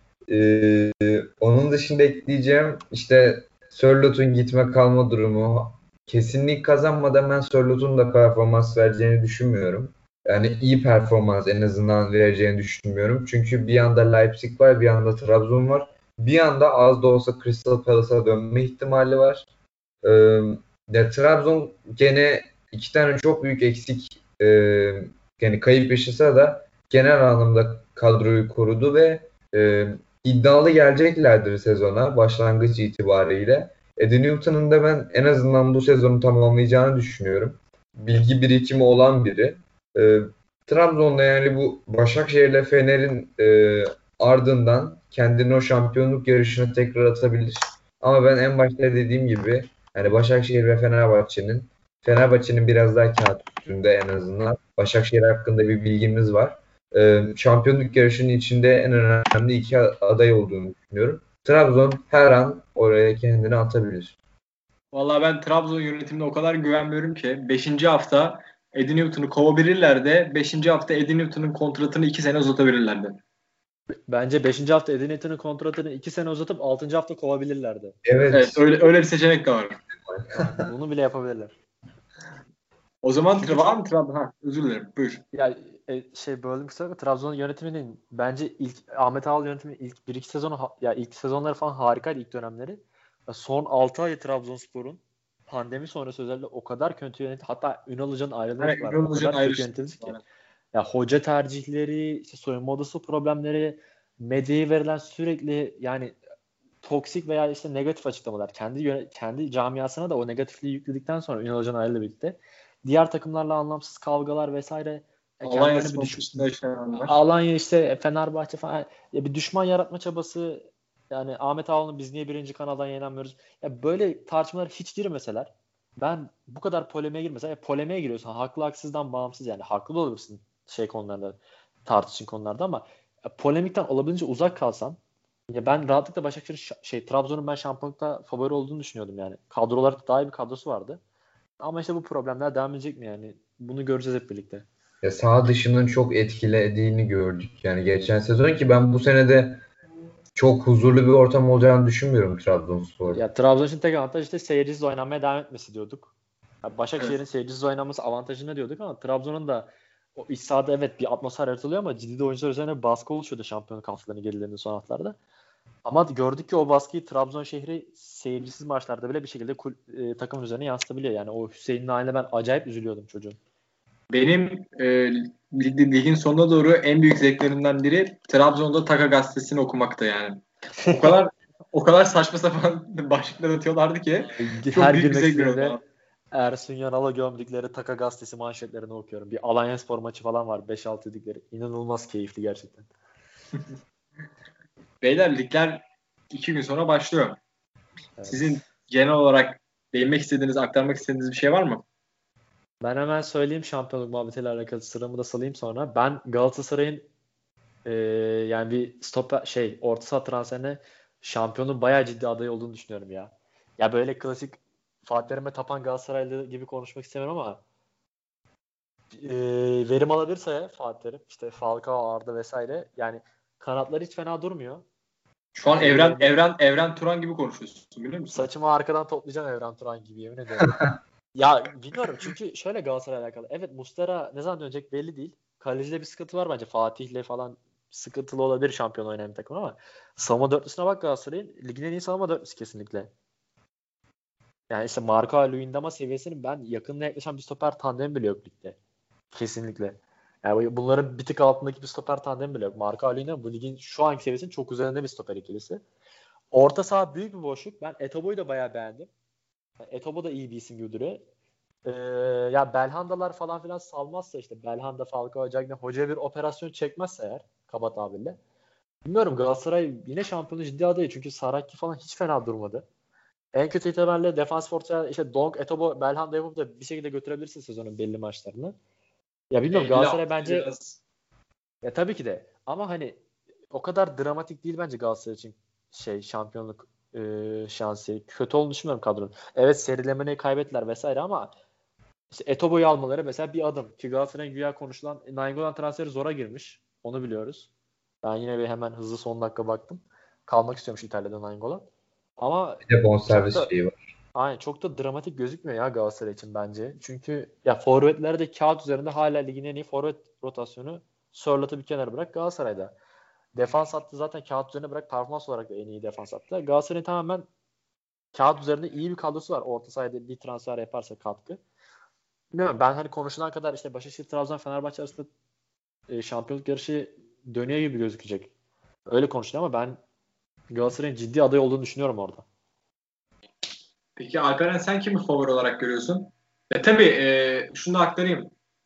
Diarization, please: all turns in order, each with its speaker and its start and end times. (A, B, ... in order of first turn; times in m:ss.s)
0:00.3-0:19.5 A
0:20.0-1:04.2 A
1:04.9-1:13.2 B
1:14.1-1:18.0 C
1:18.0-1:18.8 A
1:18.3-1:19.8 B
1:20.0-1:20.5 A
1:20.3-1:21.5 C
1:23.0-1:25.2 B
1:23.4-1:23.7 C
1:25.3-1:40.2 C
1:38.6-1:40.2 B
1:40.7-1:46.2 C
1:46.8-1:56.5 C
1:55.4-1:57.1 B
1:57.0-2:15.0 C
2:15.5-2:21.0 C
2:21.6-2:24.6 C
2:25.0-2:29.6 A
2:30.4-2:33.2 A
2:33.1-2:36.1 C
2:36.6-2:45.2 C
2:45.8-2:53.4 C
2:54.1-3:05.8 B
3:00.8-3:01.2 C
3:04.3-3:05.8 C
3:06.3-3:12.9 C
3:15.0-3:17.4 B
3:18.2-3:18.6 C
3:18.3-3:21.8 B
3:22.8-3:27.1 C
3:27.8-3:37.6 C
3:39.1-3:44.8 C
3:45.5-3:48.4 B
3:45.8-3:46.3 C
3:48.3-4:03.1 C
4:04.7-4:08.8 C
4:09.3-4:15.8 C
4:16.5-4:19.1 C
4:19.9-4:21.2 C
4:21.8-4:28.4 C
4:29.0-4:32.8 C
4:33.5-4:38.8 C
4:39.5-4:40.7 C
4:39.7-4:41.0 B
4:41.8-4:43.2 C
4:43.7-4:51.5 C
4:52.3-4:57.7 C
4:58.2-5:01.8 C
5:02.4-5:03.7 C
5:02.8-5:04.0 A
5:04.3-5:12.9 C
5:13.5-5:17.5 C
5:18.3-5:21.6 C
5:22.5-5:25.3 C
5:26.1-5:28.5 C
5:29.1-5:30.0 C
5:30.7-5:32.4 C
5:34.2-5:38.5 B